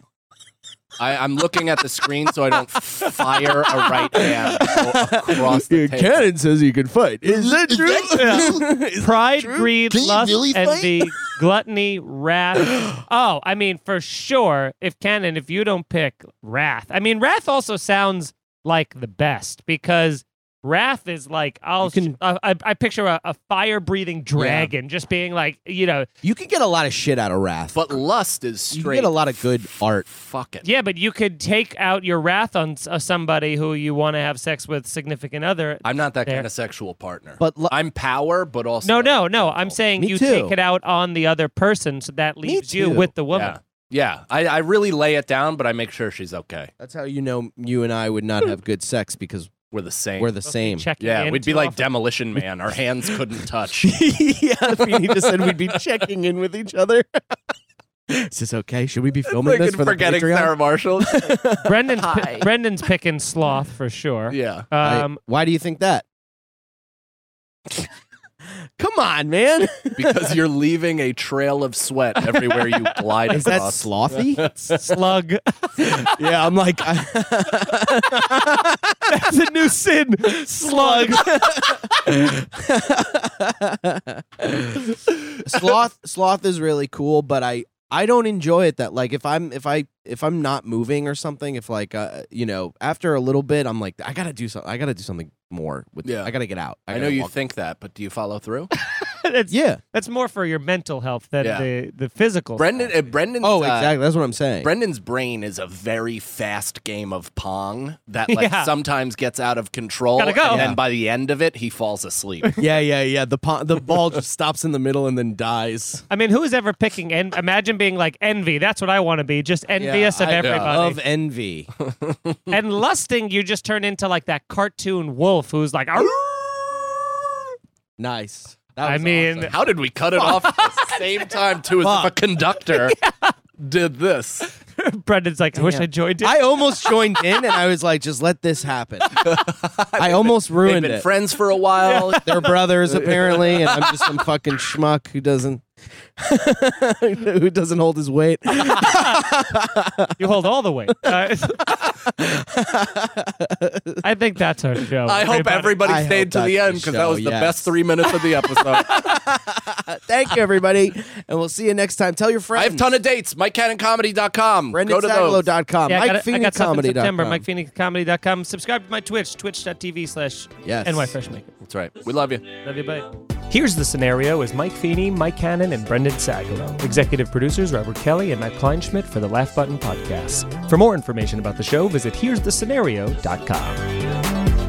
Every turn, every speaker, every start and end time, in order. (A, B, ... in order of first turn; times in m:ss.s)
0:01.0-0:06.3 A
0:03.8-0:11.2 B
0:08.0-0:26.1 C
0:21.8-0:22.2 B
0:24.4-0:24.7 B
0:26.2-0:28.0 B
0:27.7-0:30.7 A
0:28.7-0:30.1 B
0:30.6-0:36.5 C
0:35.8-0:39.8 A
0:37.4-0:37.8 B
0:38.8-0:43.6 C
0:40.0-0:40.6 B
0:42.4-0:43.1 B
0:43.3-0:46.7 A
0:46.8-0:49.5 B
0:49.7-0:50.3 A
0:50.2-0:50.9 B
0:50.4-0:51.8 C
0:51.0-0:54.0 A
0:53.8-0:57.5 B
0:58.1-1:02.5 B
0:59.3-1:01.4 A
1:01.6-1:05.2 C
1:04.3-1:04.7 A
1:04.8-1:06.0 B
1:08.8-1:10.4 B
1:10.0-1:14.8 A
1:12.6-1:13.6 C
1:13.3-1:14.8 B
1:14.7-1:16.1 C
1:15.8-1:19.1 B
1:19.1-1:21.8 C
1:20.3-1:37.3 B
1:36.0-1:36.3 A
1:36.9-1:38.7 A
1:38.8-1:42.7 C
1:39.5-1:39.8 B
1:41.4-1:41.7 A
1:42.6-1:44.0 A
1:43.4-1:44.7 B
1:44.6-1:52.6 A
1:48.3-1:48.7 C
1:50.2-1:50.8 C
1:50.5-1:50.8 B
1:52.6-1:56.0 B
1:56.1-2:01.0 C
1:59.8-2:01.7 B
2:00.4-2:00.8 A
2:01.8-2:02.6 A
2:02.5-2:06.9 C
2:08.0-2:09.5 B
2:08.8-2:09.6 C
2:09.5-2:13.0 A
2:10.2-2:11.0 C
2:11.8-2:12.2 B
2:12.7-2:13.3 C
2:13.6-2:14.5 A
2:14.6-2:17.0 C
2:15.6-2:19.2 B
2:19.2-2:23.8 A
2:20.0-2:21.1 B
2:21.9-2:22.5 C
2:22.1-2:30.2 B
2:23.4-2:23.7 C
2:28.6-2:29.2 C
2:30.2-2:31.8 C
2:31.7-2:34.0 B
2:34.0-2:35.8 C
2:35.1-2:39.2 A
2:35.8-2:42.9 B
2:42.6-2:45.5 A
2:44.7-2:47.4 B
2:45.9-2:51.6 C
2:50.6-2:51.1 B
2:51.6-2:52.4 A
2:52.6-3:04.0 C